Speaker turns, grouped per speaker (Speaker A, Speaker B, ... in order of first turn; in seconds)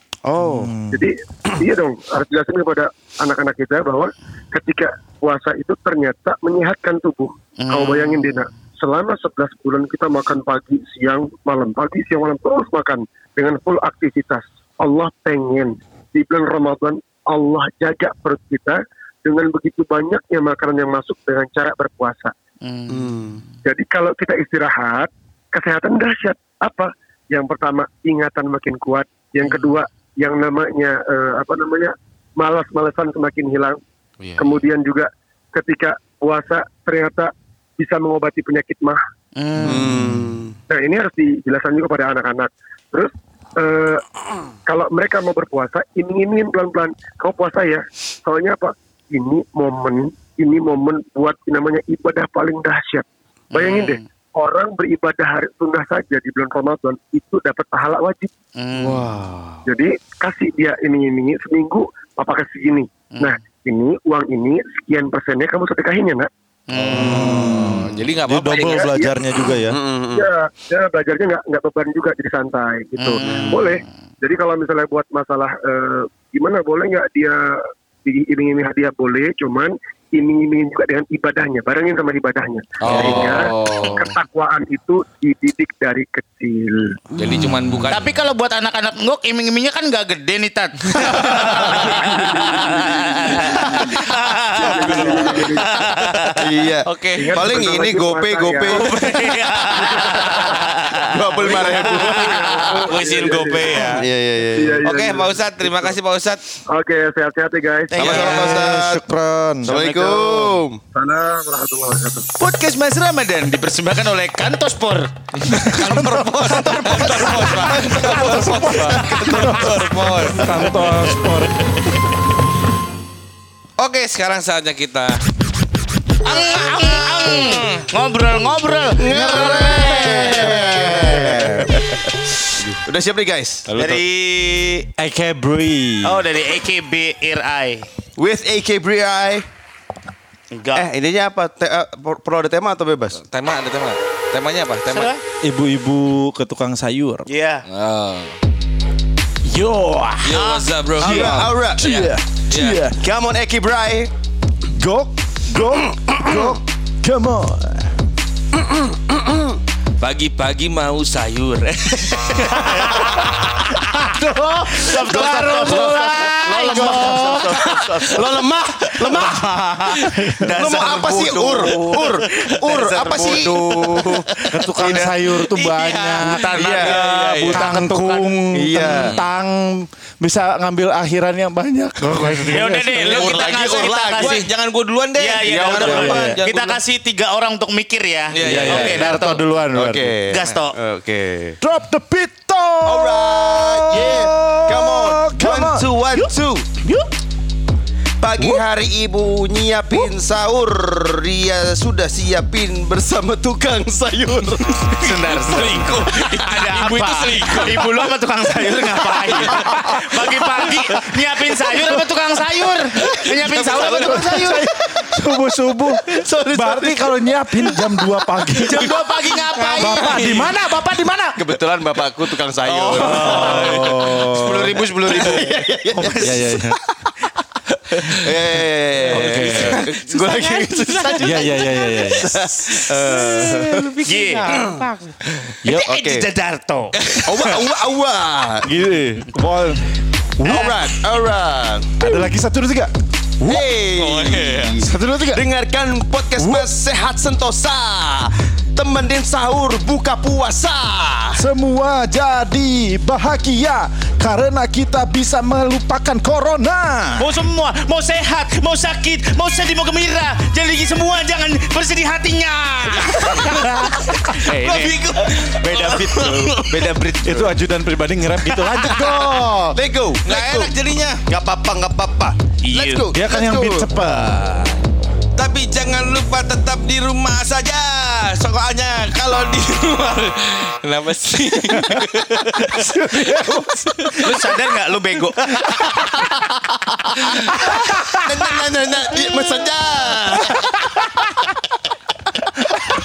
Speaker A: 0.2-0.8, 22.9-23.4, 39.6-40.6, 58.8-59.6, 67.0-67.7, 69.7-70.2, 91.5-92.1, 96.3-102.7, 103.8-104.8, 108.0-109.0, 109.6-110.8, 117.2-120.0, 128.9-133.7, 138.2-139.4, 140.7-143.2, 151.0-151.9, 152.9-154.1, 158.7-159.5, 165.4-167.2, 168.1-169.4, 170.5-175.2, 176.6-176.9, 178.6-179.2, 183.1-184.3, 185.4-186.3, 189.7-191.6, 192.8-196.7, 198.2-205.3, 221.3-224.1, 224.9-226.8, 228.1-231.2, 232.2-233.9, 234.5-234.8, 235.7-236.3, 237.2-238.7, 240.4-242.2, 243.4-251.4, 268.8-270.7, 271.3-273.9, 287.6-290.7
Speaker B: 0.4-1.0, 66.9-69.8, 108.0-109.9, 115.5-121.8, 129.1-131.5, 135.0-136.2, 145.4-147.3, 149.5-150.4, 151.0-153.0, 154.7-157.9, 162.6-167.7, 170.1-170.5, 174.5-183.3, 185.8-186.4, 188.4-190.1, 191.6-197.0, 198.4-198.6, 209.2-212.1, 213.0-219.0, 219.6-221.5, 223.0-224.8, 225.9-226.8, 229.1-229.8, 231.2-232.3, 233.4-234.9, 235.6-235.9, 238.6-240.9, 242.0-243.6, 244.8-245.4, 246.4-246.7, 251.4-257.3, 263.2-264.2, 265.8-266.5, 267.2-269.8, 273.1-274.8, 281.7-284.4, 285.8-286.1, 287.9-288.2
Speaker C: 0.8-22.3, 23.6-33.8, 34.4-39.0, 40.7-44.0, 44.6-58.3, 59.7-66.3, 68.5-69.1, 70.1-77.4, 78.0-87.0, 92.4-93.4, 94.6-95.8, 97.1-98.8, 100.0-100.6, 101.4-103.9, 104.5-106.0, 106.7-108.0, 110.0-112.3
Speaker D: 7.6-8.3, 22.6-23.1, 29.5-29.7, 39.4-39.9, 53.5-54.0, 58.6-59.0, 66.7-67.2, 73.0-73.7, 82.9-83.3, 87.9-96.5, 98.7-102.9, 107.9-108.6, 112.4-115.1, 116.4-118.1, 126.2-131.6, 133.8-134.9, 136.0-137.9, 140.5-140.8, 144.9-145.2, 147.3-147.6, 150.3-150.7, 162.7-163.1, 164.2-168.3, 169.0-174.9, 176.2-178.3, 182.4-184.5, 185.1-189.4, 190.3-190.8, 204.9-214.7, 216.1-217.0, 217.7-218.0, 218.5-220.9, 222.6-226.7, 230.2-231.9, 232.8-233.1, 234.1-234.6, 235.7-236.9, 257.2-265.0, 265.5-267.4, 268.6-269.0, 272.6-273.1, 284.2-286.2
Speaker E: 34.2-34.6, 66.7-68.9, 82.8-84.1, 87.2-88.1, 91.0-92.3, 94.5-95.5, 96.9-97.4, 102.8-104.0, 104.8-106.4, 108.0-108.6, 115.4-120.9, 123.8-125.2, 127.0-127.9, 133.7-134.0, 143.1-145.1, 147.7-148.4, 150.2-152.8, 160.0-163.5, 167.2-168.0, 175.6-177.8, 178.8-179.2, 182.9-186.8, 188.3-189.2, 204.9-208.0, 213.3-214.1, 219.7-220.4, 223.3-223.9, 229.1-232.3, 233.1-234.8, 237.0-237.7, 243.9-244.8, 263.0-263.7, 264.3-266.5, 270.2-271.2, 275.4-284.6, 287.3-287.9